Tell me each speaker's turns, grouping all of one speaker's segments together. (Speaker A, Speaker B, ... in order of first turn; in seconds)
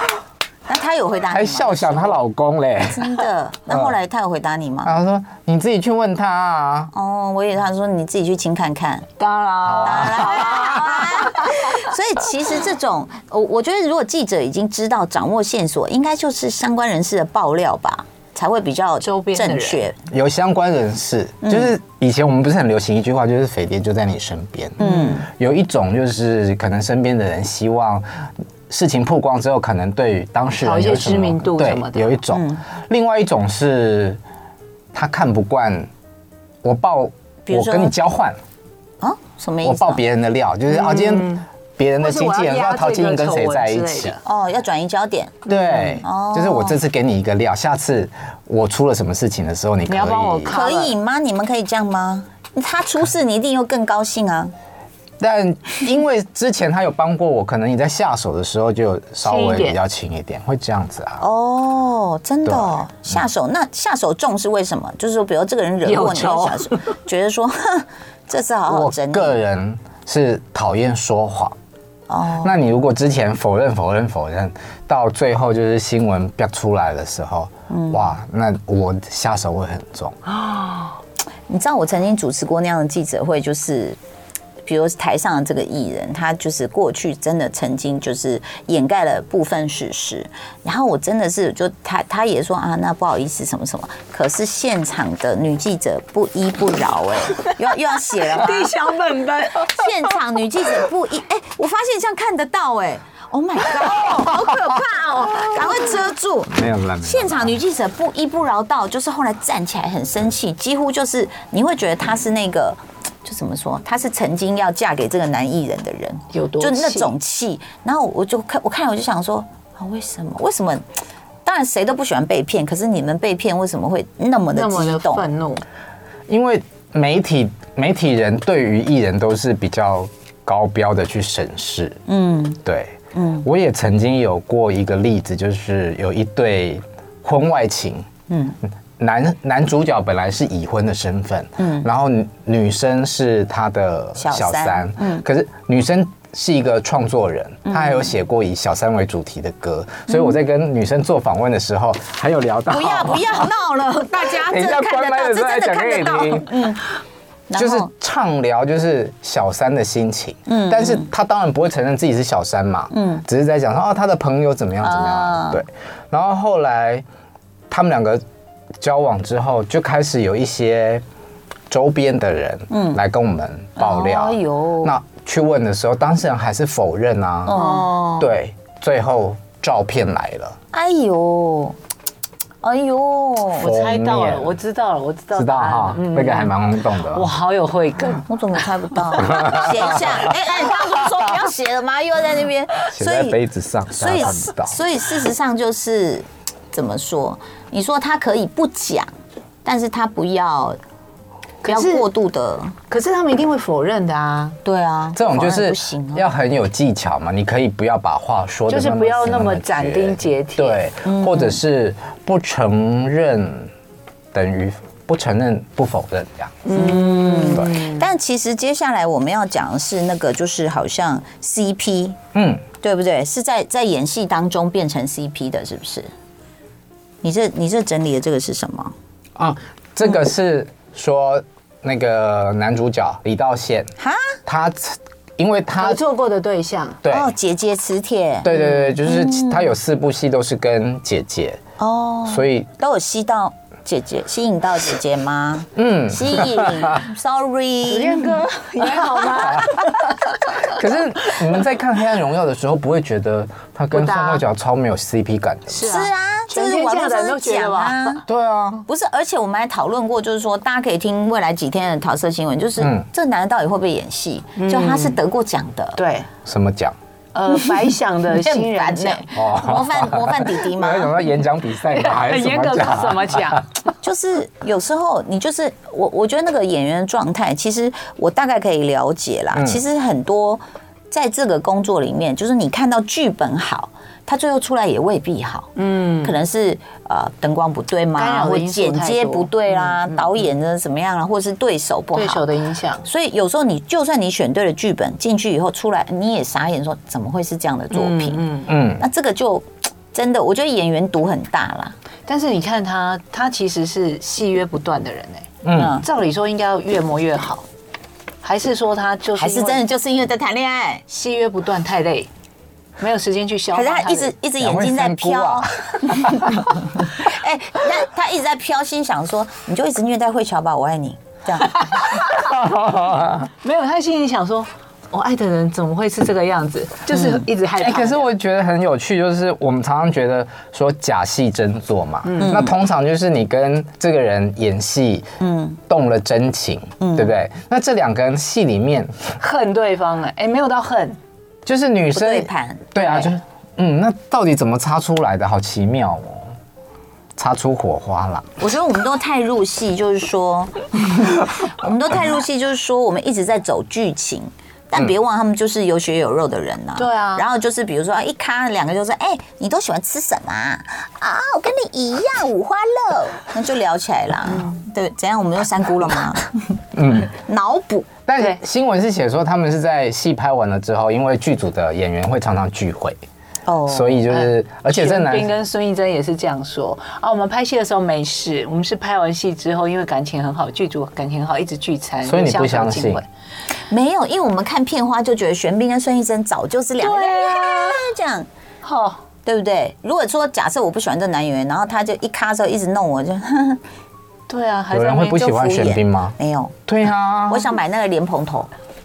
Speaker A: 0.7-2.2, 2.9-4.9, 6.9-9.1, 9.8-19.9, 21.4-21.7, 24.8-25.3, 32.3-32.6, 37.5-37.9, 39.0-40.0, 44.2-45.4, 46.0-46.8, 50.5-54.5, 61.2-69.4, 72.1-72.5, 77.7-78.1, 81.5-84.0, 84.6-98.7, 99.7-120.8, 121.4-125.2, 132.1-132.6, 133.1-133.4, 138.3-138.6, 141.6-141.8, 144.2-145.2, 147.7-148.1, 150.1-150.3, 152.7-156.8, 157.5-157.9, 160.5-161.1, 162.9-163.2, 164.8-165.6, 172.7-173.0, 173.8-174.9, 177.4-178.3, 180.7-181.8, 182.6-183.6, 188.2-193.4, 193.9-199.1, 199.6-200.8, 201.6-202.8, 204.6-206.3, 211.0-211.6, 216.7-222.2, 222.8-226.1, 227.2-228.9, 234.0-234.3, 237.1-239.7, 241.8-248.3, 255.8-258.2, 258.9-266.0, 267.5-271.2, 274.0-292.4, 293.0-301.9, 305.7-306.0, 309.4-311.0, 313.7-321.9, 332.4-332.7, 335.4-335.8, 337.0-337.3, 342.1-343.0, 348.6-366.8, 367.3-368.1, 373.7-374.2, 383.9-388.5, 389.4-393.8, 395.6-396.7, 397.5-398.7
Speaker B: 1.3-4.0, 4.8-6.9, 9.6-11.0, 20.1-28.0, 28.7-34.2, 34.9-35.9, 36.6-38.4, 39.6-44.2, 45.5-50.6, 55.2-61.2, 62.4-62.8, 68.7-71.5, 72.4-80.2, 106.5-107.5, 126.3-132.0, 132.6-138.1, 139.0-153.5, 154.1-156.5, 157.5-167.0, 167.7-168.2, 168.8-171.0, 171.7-177.6, 178.2-180.6, 183.6-184.6, 185.3-187.3, 189.3-190.3, 192.9-194.8, 205.1-213.7, 214.3-216.6, 222.3-222.6, 229.4-233.9, 234.4-236.0, 237.0-237.3, 238.4-241.6, 242.3-242.7, 245.8-247.0, 249.3-249.9, 250.6-255.9, 258.3-258.9, 262.8-263.1, 266.4-266.9, 269.3-273.6, 279.5-279.8, 298.7-299.0, 305.6-306.0, 314.6-316.8, 322.4-323.5, 327.8-335.3, 335.9-339.4, 341.6-346.5, 347.4-348.4, 366.9-367.3, 368.3-373.2, 373.9-375.5, 382.2-383.2, 394.9-396.3, 396.9-397.7
Speaker C: 9.2-11.5, 19.0-19.9, 24.8-25.1, 30.6-32.2, 40.7-41.4, 42.0-44.2, 45.5-46.0, 49.9-51.0, 59.2-59.8, 65.8-66.8, 80.5-80.9, 98.2-100.1, 116.3-117.1, 124.5-125.6, 177.5-177.9, 183.6-186.5, 187.1-188.3, 201.6-202.1, 202.9-204.6, 208.7-210.8, 216.6-218.1, 235.8-237.0, 247.9-250.0, 253.9-254.4, 255.7-258.2, 264.6-265.2, 266.0-266.3, 267.3-269.2, 271.9-273.7, 285.8-286.4, 288.1-290.4, 292.1-293.0, 297.9-298.7, 302.3-307.6, 308.4-309.8, 311.1-312.3, 313.0-314.3, 321.6-322.5, 323.6-328.3, 332.2-332.7, 339.4-341.2, 343.0-343.3, 357.0-357.4, 374.3-383.3, 387.0-388.1, 388.8-389.2, 394.5-395.8